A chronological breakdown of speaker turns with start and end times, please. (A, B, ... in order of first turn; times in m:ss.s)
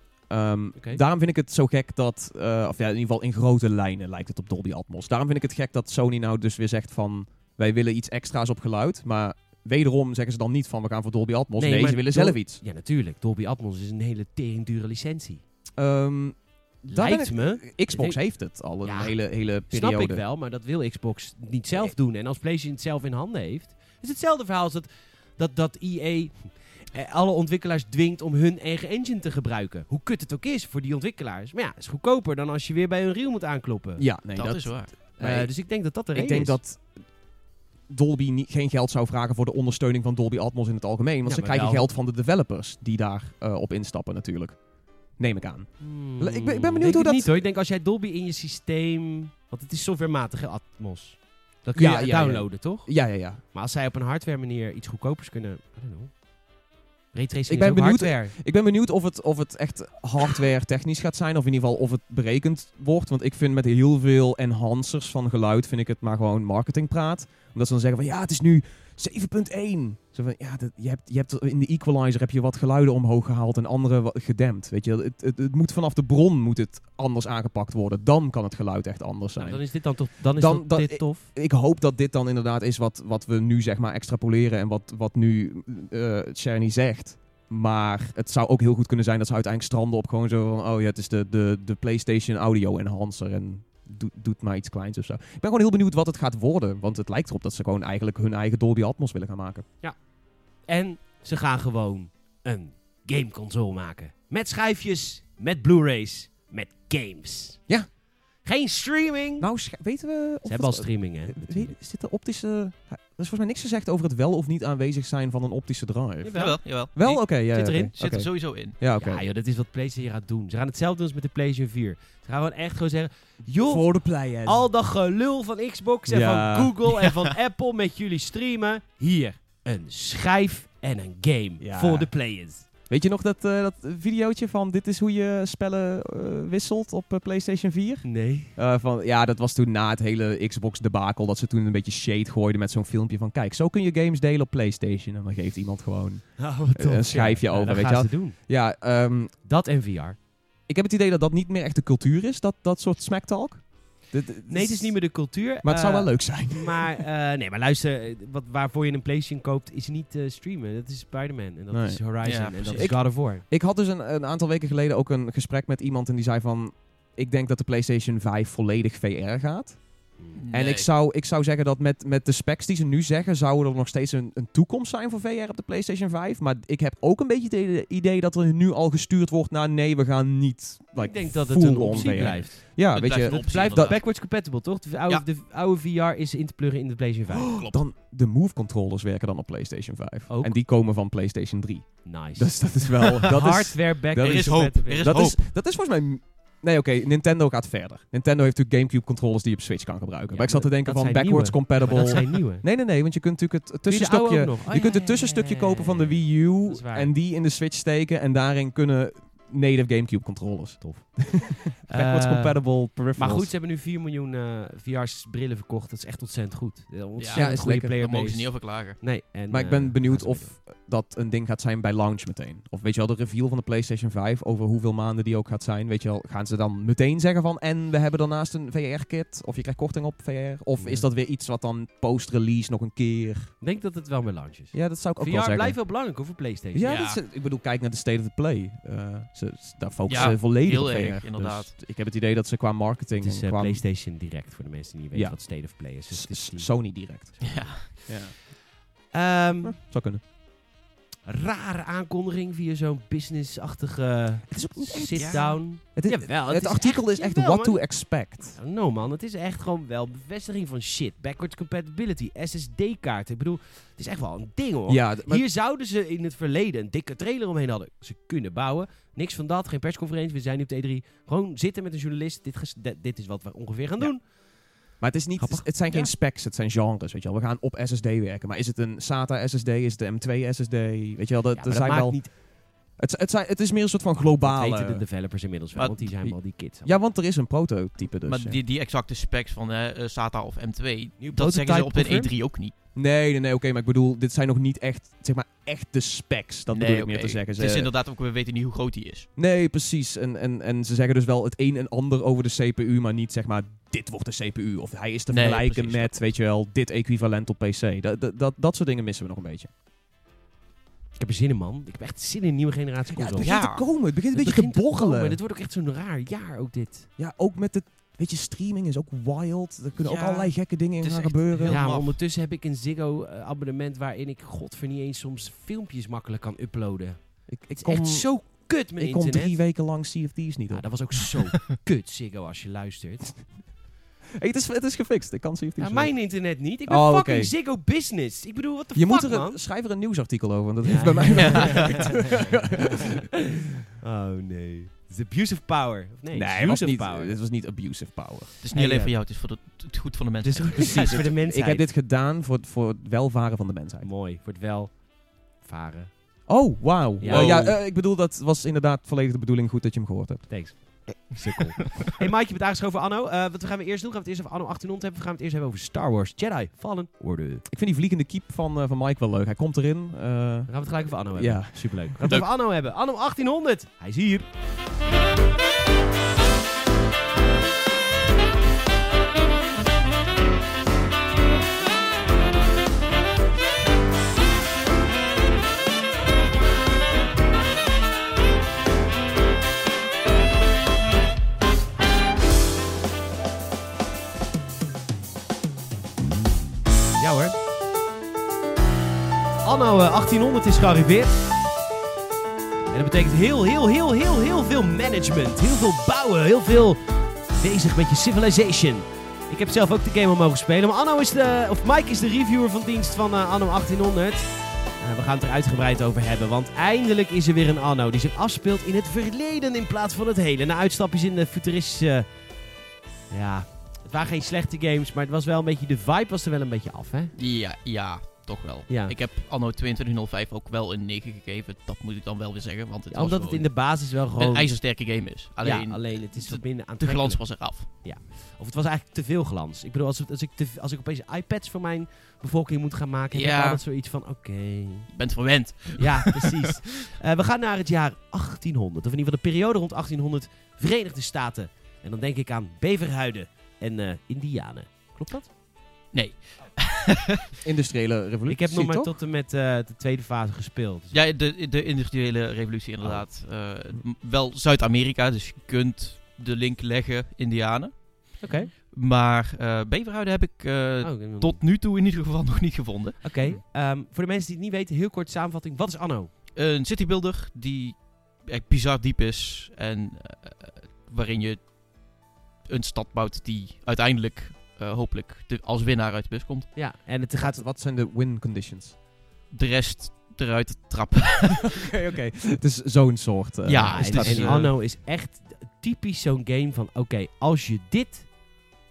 0:00.3-0:12.6 A
0:11.6-0:15.4 B
0:15.8-0:20.2 A
0:16.9-0:18.2 B
0:18.8-0:19.2 B
0:19.7-0:34.0 B
0:34.0-0:35.5 A
0:34.4-0:34.9 C
0:35.2-0:36.6 B
0:36.1-0:36.8 A
0:37.9-0:44.6 A
0:41.3-0:41.9 B
0:45.2-0:47.4 A
0:45.8-0:56.2 B
0:51.8-0:53.4 A
0:57.1-0:58.4 B
0:57.5-1:19.6 A
1:19.4-1:21.3 B
1:20.4-1:39.7 A
1:39.8-1:40.1 B
1:40.6-1:47.6 B
1:48.4-1:49.5 B
1:49.4-1:59.2 A
1:50.4-1:51.8 B
1:56.2-1:56.6 B
1:56.3-1:57.4 C
1:57.5-1:57.9 B
1:58.0-1:58.8 C
1:59.0-2:12.7 B
2:03.7-2:04.7 A
2:06.1-2:06.8 A
2:11.6-2:12.1 A
2:12.9-2:29.3 A
2:18.0-2:18.5 B
2:26.4-2:28.4 B
2:29.4-2:30.2 B
2:30.7-2:37.0 A
2:34.5-2:43.4 B
2:41.7-2:49.8 A
2:42.2-2:42.9 C
2:50.4-2:50.9 C
2:50.5-3:04.0 A
3:01.0-3:07.6 B
3:02.0-3:04.1 C
3:07.4-3:07.8 C
3:07.6-3:33.5 A
3:10.3-3:10.6 B
3:12.0-3:15.2 B
3:14.2-3:15.4 C
3:20.3-3:22.6 B
3:23.9-3:27.1 B
3:30.8-3:32.6 B
3:33.1-3:40.5 B
3:37.2-3:39.0 C
3:37.3-3:38.0 A
3:39.5-3:53.5 A
3:50.8-3:51.1 B
3:53.6-3:57.1 B
3:54.7-3:55.8 A
3:56.7-4:03.8 A
4:00.1-4:01.7 C
4:03.2-4:06.7 B
4:05.1-4:08.4 A
4:07.4-4:07.9 C
4:09.1-4:09.8 B
4:09.6-4:10.2 A
4:11.3-4:34.3 B
4:14.5-4:18.6 A
4:15.2-4:15.6 C
4:24.9-4:25.4 A
4:35.0-4:42.4 A
4:35.4-4:35.8 B
4:41.5-4:42.3 B
4:43.0-4:45.0 A
4:44.2-4:47.0 B
4:45.8-4:46.1 C
4:46.8-4:48.6 A
4:48.2-4:52.7 C
4:51.2-4:52.3 B
4:53.0-4:57.9 A
4:56.7-4:59.3 C
4:59.4-5:09.7 A
5:05.3-5:06.2 C
5:11.2-5:13.7 B
5:13.1-5:15.4 A
5:13.4-5:13.8 C
5:14.3-5:17.1 B
5:17.2-5:21.8 A
5:20.0-5:22.2 C
5:21.7-5:29.6 B
5:27.5-5:31.2 A
5:30.7-5:33.5 B
5:34.4-5:36.3 A
5:35.8-5:39.6 B
5:36.9-5:37.5 A
5:39.0-5:43.2 A
5:40.8-5:43.2 B
5:41.4-5:42.0 C
5:44.0-5:47.4 B
5:46.3-5:48.5 A
5:48.6-5:51.3 C
5:48.7-5:49.2 B
5:50.4-5:51.9 B
5:50.8-5:54.1 A
5:54.0-5:56.1 B
5:56.5-6:00.6 A
5:57.2-5:57.6 B
5:57.3-5:57.8 C
6:00.5-6:07.6 B
6:07.7-6:12.4 A
6:10.7-6:14.5 B
6:37.2-6:37.6 B
6:39.6-6:41.4 B
6:42.9-7:02.4 B
7:03.3-7:07.3 B
7:07.4-7:17.9 C
7:08.9-7:09.2 B
7:13.1-7:15.0 B
7:15.6-7:25.1 B
7:23.3-7:23.8 C
7:25.1-7:26.7 C
7:26.0-7:35.5 B
7:36.1-7:37.4 C
7:37.6-7:39.2 A
7:38.5-7:41.2 B
7:41.1-7:53.3 C
7:48.4-7:48.7 B
7:51.0-7:51.6 B
7:53.2-7:56.3 B
7:56.6-8:01.7 C
8:02.7-8:06.7 C
8:06.8-8:07.6 B
8:07.4-8:09.0 A
8:09.5-8:11.9 C
8:11.8-8:14.7 A
8:13.6-8:14.7 C
8:13.9-8:18.3 B